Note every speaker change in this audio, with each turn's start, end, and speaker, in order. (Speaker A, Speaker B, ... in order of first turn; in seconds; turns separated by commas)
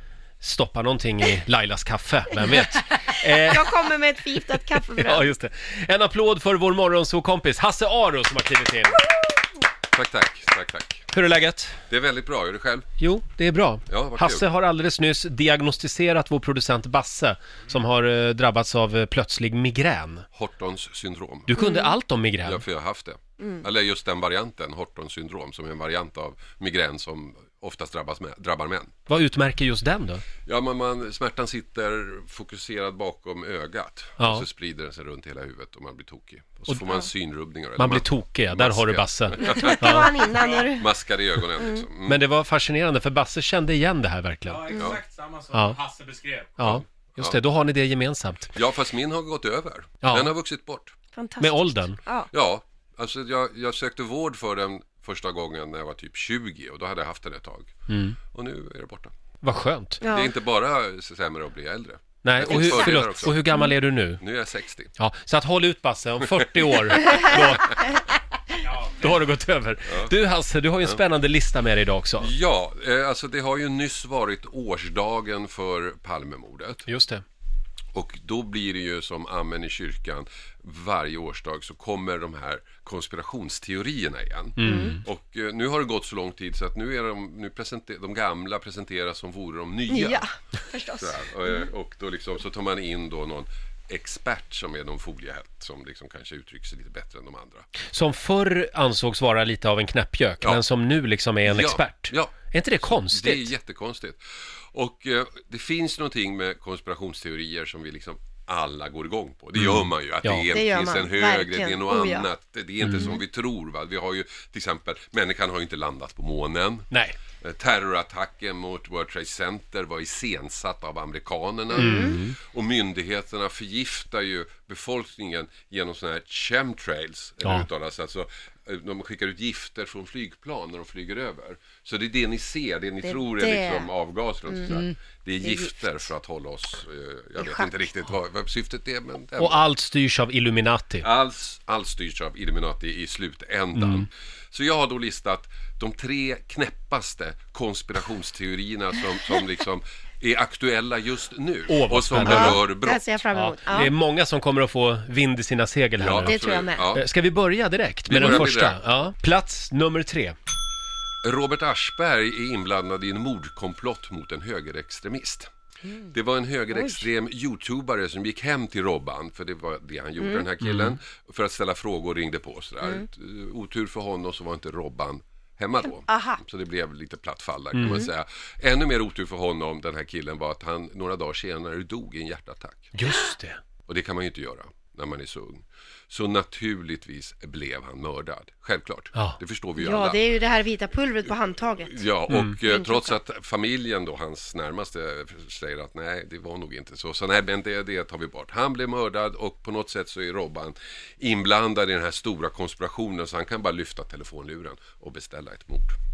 Speaker A: 0.4-3.7, Speaker B: 3.1-5.3, Speaker A: 5.0-9.0, Speaker C: 9.9-11.1, Speaker A: 11.1-11.8, Speaker C: 11.9-12.9, Speaker A: 13.0-20.3, Speaker C: 13.9-14.5, Speaker C: 20.4-21.6, Speaker A: 21.5-22.6, Speaker B: 21.6-21.9, Speaker C: 22.4-28.9, Speaker B: 23.4-23.6, Speaker A: 29.1-30.2, Speaker C: 30.5-42.2, Speaker A: 34.2-34.4, Speaker A: 37.8-40.1, Speaker B: 39.4-40.9, Speaker B: 41.6-41.9, Speaker A: 42.1-44.8, Speaker D: 44.5-46.6, Speaker C: 44.7-45.0, Speaker A: 45.5-45.8, Speaker A: 46.6-48.5, Speaker C: 46.6-47.4, Speaker C: 48.5-51.0, Speaker A: 50.0-50.3, Speaker B: 51.1-52.3, Speaker A: 51.4-52.0, Speaker C: 52.3-57.7, Speaker A: 57.9-58.2, Speaker C: 58.3-59.1, Speaker A: 59.4-60.0, Speaker B: 60.0-60.3, Speaker C: 60.0-63.4, Speaker A: 62.2-64.2, Speaker C: 64.2-64.9, Speaker A: 65.0-67.9, Speaker C: 67.1-67.4, Speaker D: 68.7-69.0, Speaker A: 68.9-72.3, Speaker C: 69.9-70.1, Speaker C: 72.2-76.9, Speaker A: 76.9-77.2, Speaker C: 77.9-90.2, Speaker A: 84.6-85.0, Speaker B: 84.6-85.0, Speaker B: 89.9-91.7, Speaker C: 91.0-97.7, Speaker A: 97.9-103.5, Speaker C: 101.4-104.2, Speaker C: 104.7-139.7, Speaker A: 109.6-110.5, Speaker B: 110.5-112.3, Speaker A: 112.8-113.2, Speaker A: 116.9-117.2, Speaker B: 121.7-122.2, Speaker A: 121.8-122.3, Speaker B: 133.0-133.9, Speaker B: 134.5-134.8, Speaker B: 135.4-135.8, Speaker B: 137.4-137.7, Speaker A: 139.4-141.1, Speaker C: 141.0-153.0, Speaker A: 143.8-144.1, Speaker A: 151.7-152.6, Speaker B: 152.2-153.9, Speaker A: 153.3-156.4, Speaker C: 156.0-157.1, Speaker B: 156.2-156.9, Speaker A: 156.9-160.3, Speaker C: 158.1-158.8, Speaker C: 161.2-182.9, Speaker B: 170.2-170.4, Speaker A: 170.6-171.0, Speaker B: 175.9-176.4, Speaker A: 177.7-178.1, Speaker A: 182.9-183.6, Speaker C: 183.9-190.2, Speaker B: 189.8-192.1, Speaker C: 191.8-206.0, Speaker B: 192.7-193.1